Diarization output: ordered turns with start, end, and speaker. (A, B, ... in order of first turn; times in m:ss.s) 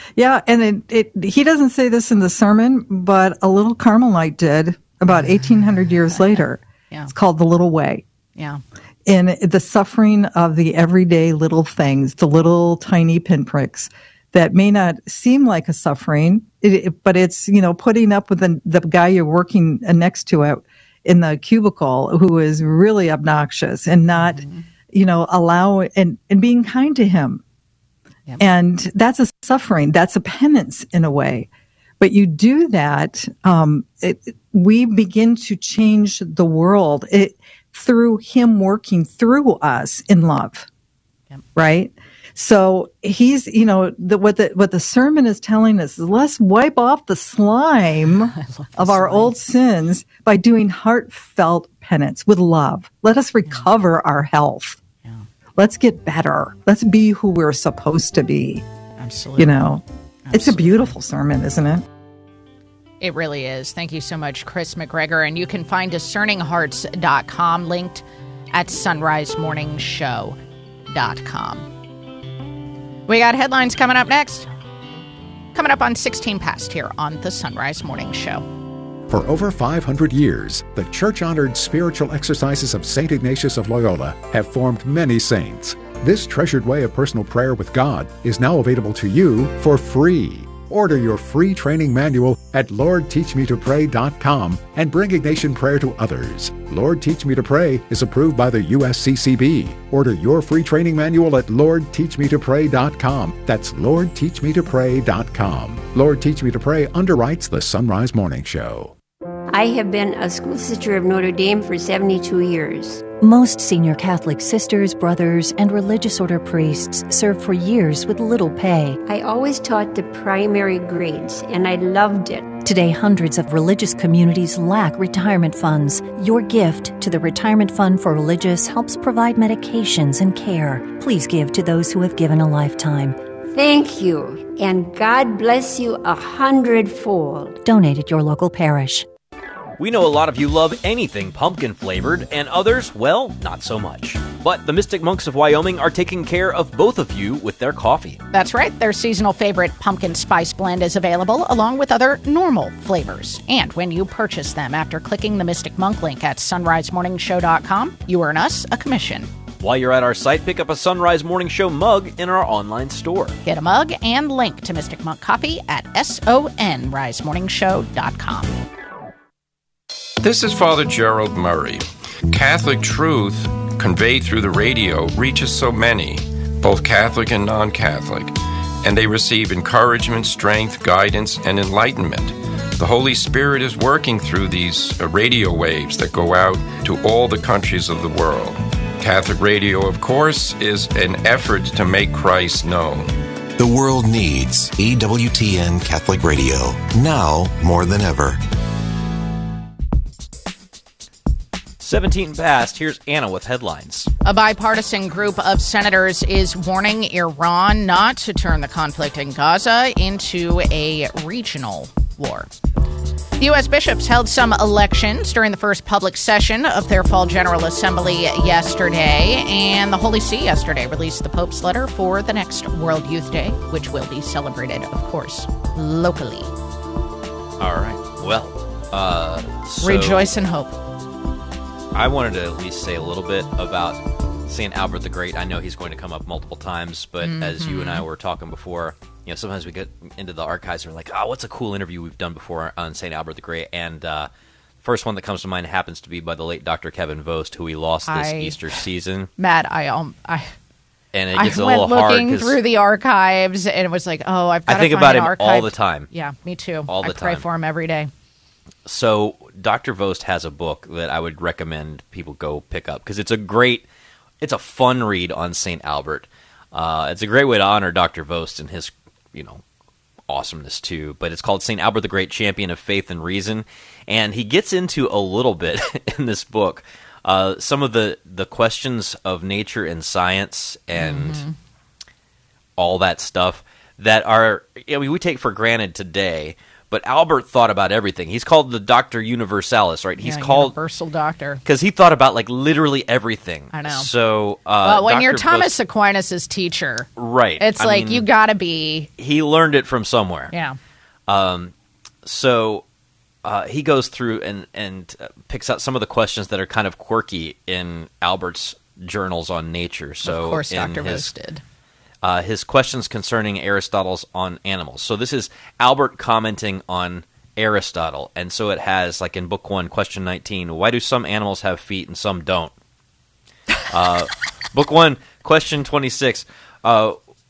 0:00.2-0:08.0 A
0:06.1-0:07.1 B
0:08.4-0:08.6 B
0:09.1-0:27.4 A
0:24.2-0:24.6 B
0:28.4-0:31.5 A
0:32.0-0:40.7 A
0:41.6-0:54.8 A
0:48.4-0:49.3 B
0:55.6-0:58.6 A
0:59.0-0:59.6 B
0:59.4-1:01.8 A
1:00.3-1:00.7 B
1:03.0-1:10.4 B
1:10.9-1:11.7 B
1:13.1-1:14.5 B
1:15.5-1:18.4 B
1:19.1-1:49.0 C
1:49.5-1:53.1 D
1:53.2-1:59.0 E
1:59.0-2:02.6 D
2:02.6-2:13.2 E
2:13.5-2:17.6 D
2:17.6-2:19.1 E
2:19.8-2:28.2 F
2:28.3-2:39.3 B
2:39.6-2:43.4 F
2:43.4-2:48.6 B
2:50.2-3:13.1 G
3:13.6-3:18.4 H
3:21.8-3:24.1 F
3:24.2-3:32.5 B
3:33.4-3:46.5 B
3:47.6-3:50.3 F
3:49.8-3:50.8 B
3:51.9-4:04.3 F
3:57.2-3:58.0 B
4:04.8-4:09.3 F
4:08.1-4:08.8 B
4:09.4-4:10.5 B
4:11.1-4:12.6 F
4:11.4-4:18.1 B
4:14.7-4:16.1 F
4:16.9-4:17.4 F
4:18.9-4:23.8 F
4:24.4-4:29.6 F
4:30.3-4:41.4 F
4:41.0-4:41.6 B
4:42.8-4:50.7 F
4:50.2-4:51.6 B
4:51.6-4:55.7 F
4:53.7-4:54.1 B
4:54.8-4:59.1 B
4:57.2-4:58.3 F
4:59.2-5:00.5 F
5:00.5-5:00.8 B
5:01.3-5:01.7 F
5:02.2-5:02.8 F
5:03.4-5:11.3 F
5:10.2-5:11.6 B
5:12.2-5:22.7 F
5:23.9-5:27.2 F